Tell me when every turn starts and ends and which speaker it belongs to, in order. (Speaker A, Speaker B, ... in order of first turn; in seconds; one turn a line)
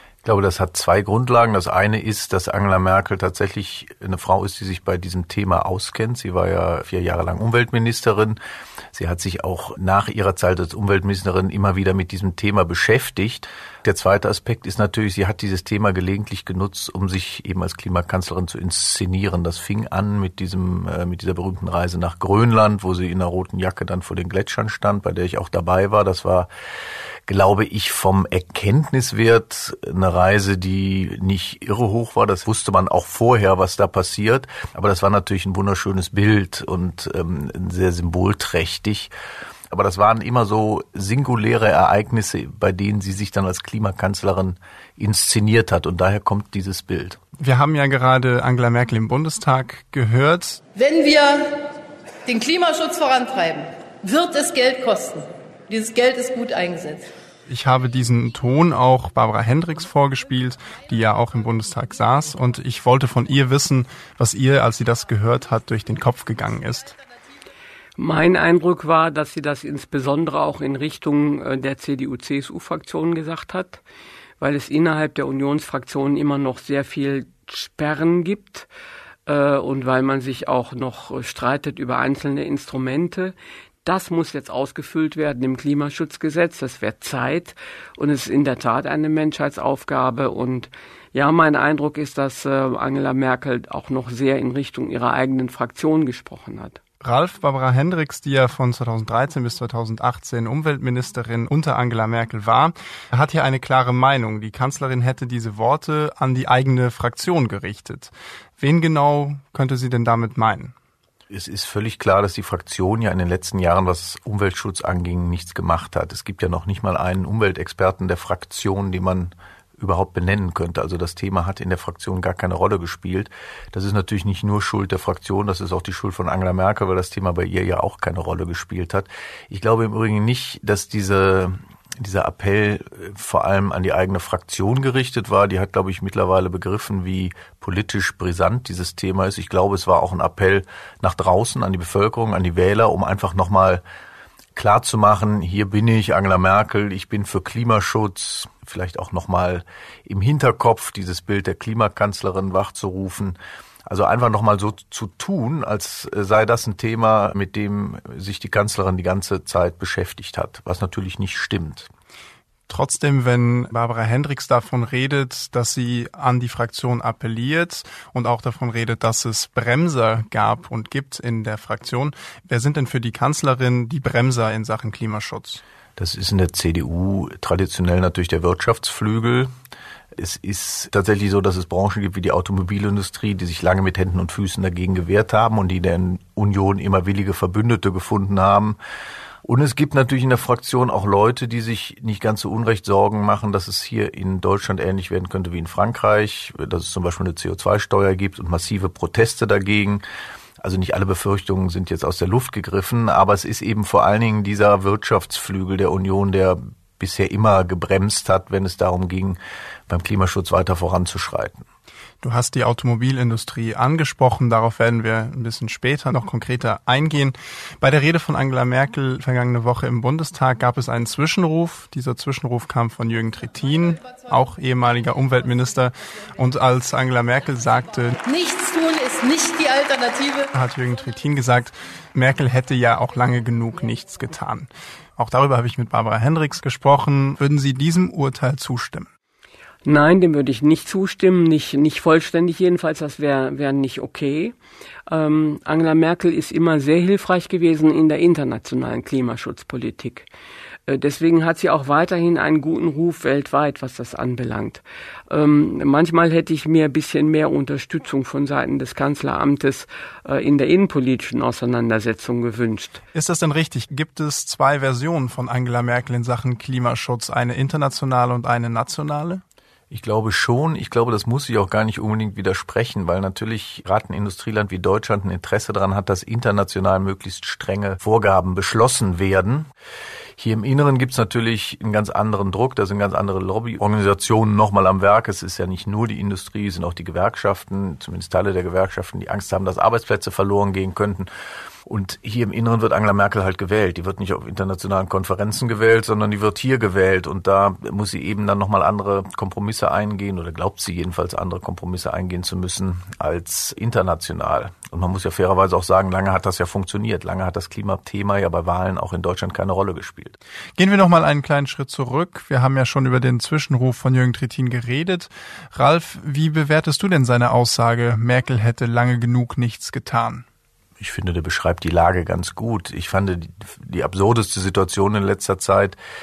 Speaker A: 0.2-8.4
Speaker A: 8.9-26.5
Speaker A: 27.3-39.1
Speaker A: 39.7-47.2
Speaker B: 47.4-50.6
Speaker C: 50.8-51.6
Speaker C: 52.2-57.1
Speaker B: 57.5-67.0
Speaker D: 68.0-73.8
Speaker D: 74.4-78.7
Speaker D: 79.3-96.8
Speaker B: 97.0-110.7
Speaker A: 111.3-143.8
Speaker A: 144.6-161.9
Speaker B: 162.7-175.6
Speaker A: 176.0-179.5
Speaker A: 180.2-188.8
Speaker A: 189.4-200.0
Speaker A: 200.6-211.7
Speaker B: 212.2-228.2
Speaker C: 228.2-230.5
Speaker B: 230.5-239.1
Speaker D: 239.8-244.6
Speaker D: 245.1-250.3
Speaker D: 250.9-263.0
Speaker B: 263.1-269.4
Speaker A: 269.9-279.7
Speaker A: 280.4-291.3
Speaker A: 291.9-310.4
Speaker B: 310.8-320.4
Speaker A: 321.0-326.0